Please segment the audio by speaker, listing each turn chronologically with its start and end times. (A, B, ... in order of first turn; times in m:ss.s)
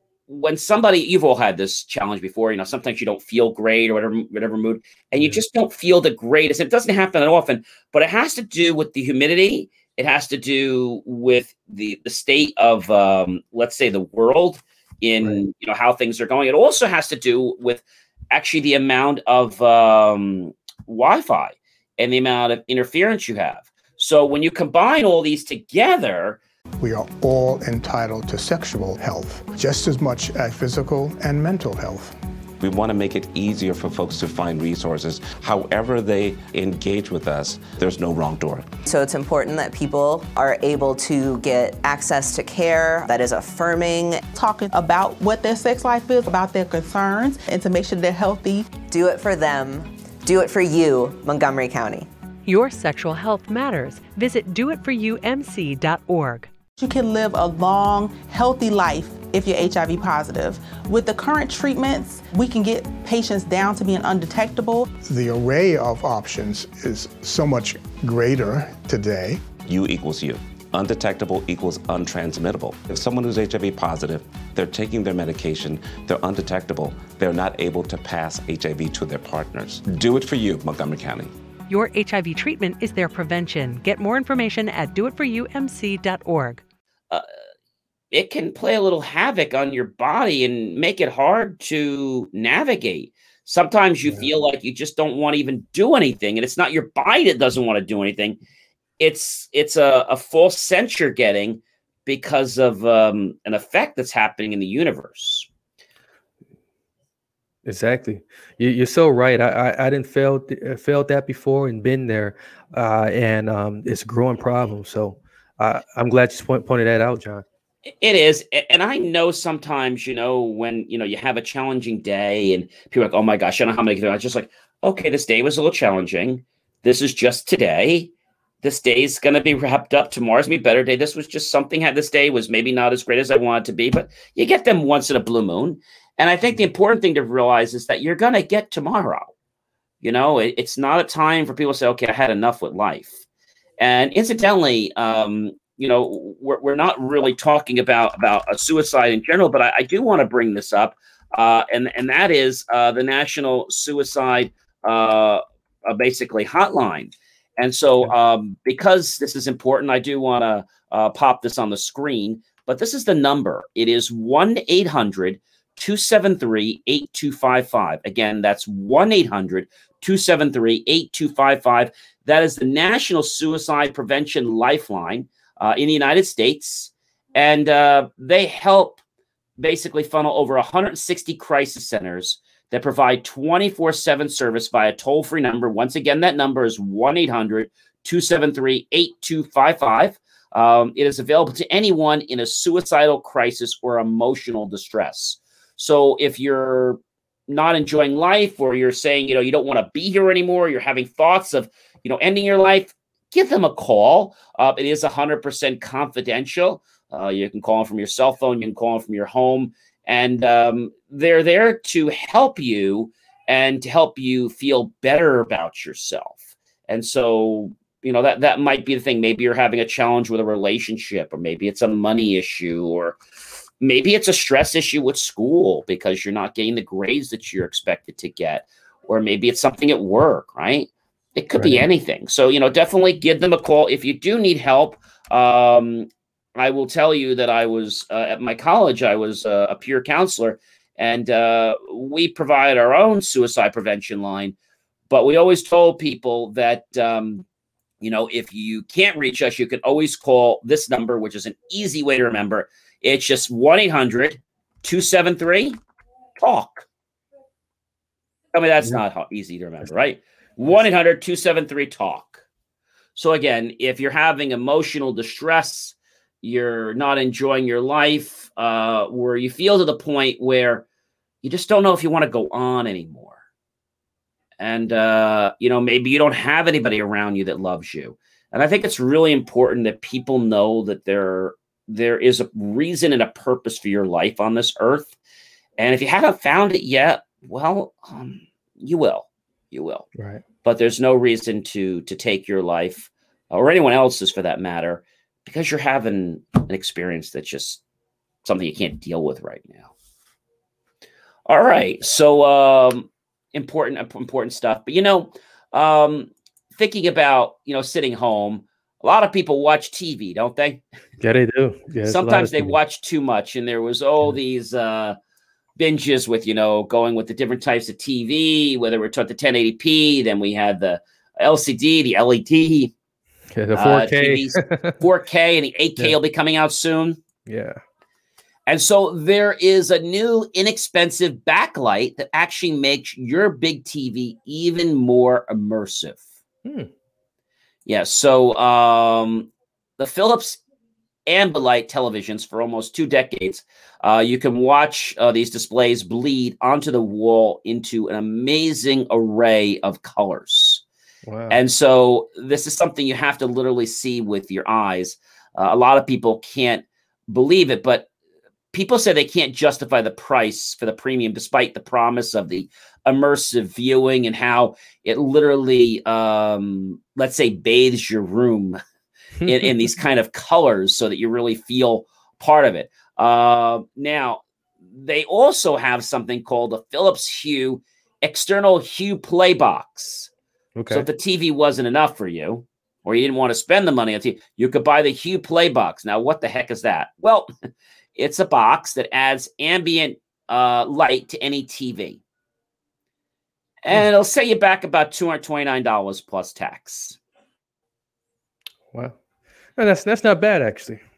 0:00.3-0:26.4 A
0:26.8-0:32.2 B
0:32.6-0:38.7 C
0:38.8-0:44.2 D
0:44.3-0:48.7 E
0:48.8-0:52.1 D
0:52.4-0:56.5 F
0:56.8-1:04.8 E
1:05.1-1:09.5 B
1:09.6-1:21.3 C
1:21.7-1:26.6 F
1:28.1-1:38.4 A
1:39.0-1:45.5 A
1:47.6-1:57.4 G
1:57.8-2:08.1 A
2:08.6-2:19.3 A
2:20.0-2:23.2 A
2:23.8-2:59.0 A
2:59.6-3:43.2 A
3:43.8-4:04.5 A
3:51.6-3:51.8 G
4:05.1-4:07.4 A
4:08.0-4:15.8 A
4:16.4-4:16.8 A
4:18.5-4:22.4 A
4:23.1-4:30.8 A
4:31.4-4:33.4 A
4:34.6-4:45.1 A
4:45.8-4:50.0 A
4:50.1-4:50.4 G
4:50.6-4:57.8 A
4:58.4-4:59.9 A
5:01.5-5:10.8 A
5:11.2-5:12.8 G
5:12.0-5:15.2 A
5:15.8-5:22.9 A
5:23.5-5:25.0 G
5:23.7-5:27.2 A
5:27.4-5:27.8 G
5:28.7-5:36.2 A
5:36.6-5:36.9 G
5:37.8-5:40.6 A
5:41.3-5:50.8 A
5:51.2-5:51.6 G
5:51.5-5:58.1 A
5:58.7-6:08.8 A
6:09.4-6:14.4 A
6:14.9-6:20.3 A
6:20.8-6:21.1 G
6:20.9-6:27.5 A
6:28.2-6:32.2 A
6:33.8-6:37.2 A
6:38.9-6:39.2 G
6:39.8-6:41.0 G